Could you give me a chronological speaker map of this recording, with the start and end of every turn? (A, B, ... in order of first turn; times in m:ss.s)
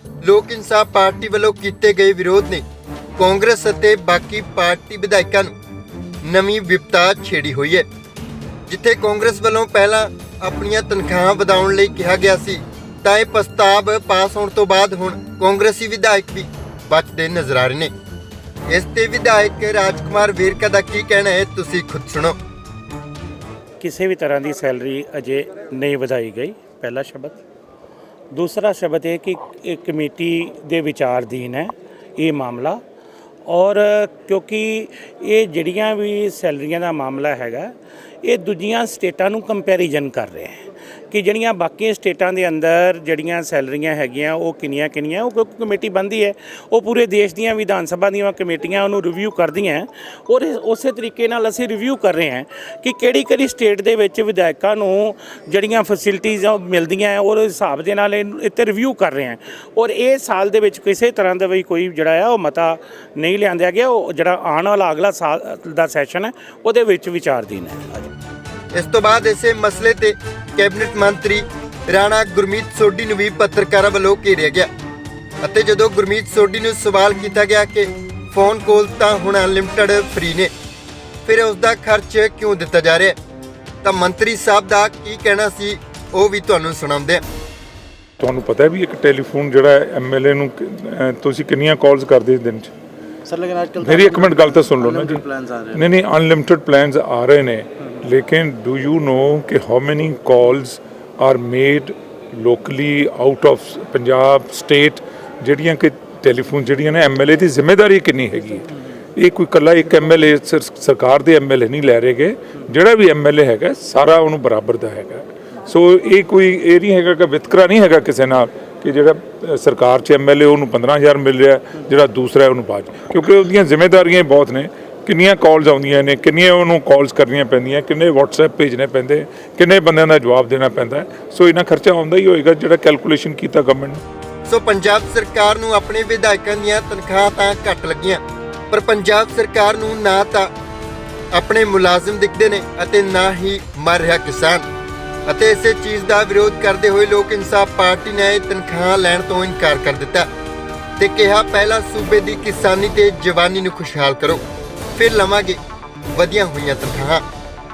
0:00.2-0:02.6 A
0:03.2-0:05.5 A
0:06.2-0:07.9 A
0:08.7-0:17.9 A
0:18.7-0:22.4 A
0:23.8-0:27.4 B
0:28.3-0:32.8 B
0:33.4-1:08.1 B
1:08.7-1:14.7 A
1:15.4-1:20.5 A
1:21.2-1:23.2 A
1:23.8-1:27.2 A
1:28.2-1:32.7 C
1:33.2-1:35.8 D
1:33.8-2:14.0 C
2:14.5-2:20.5 A
2:21.3-2:24.6 A
2:25.2-2:30.3 A
2:31.0-2:34.4 A
2:35.0-2:35.6 A
2:36.1-2:37.2 A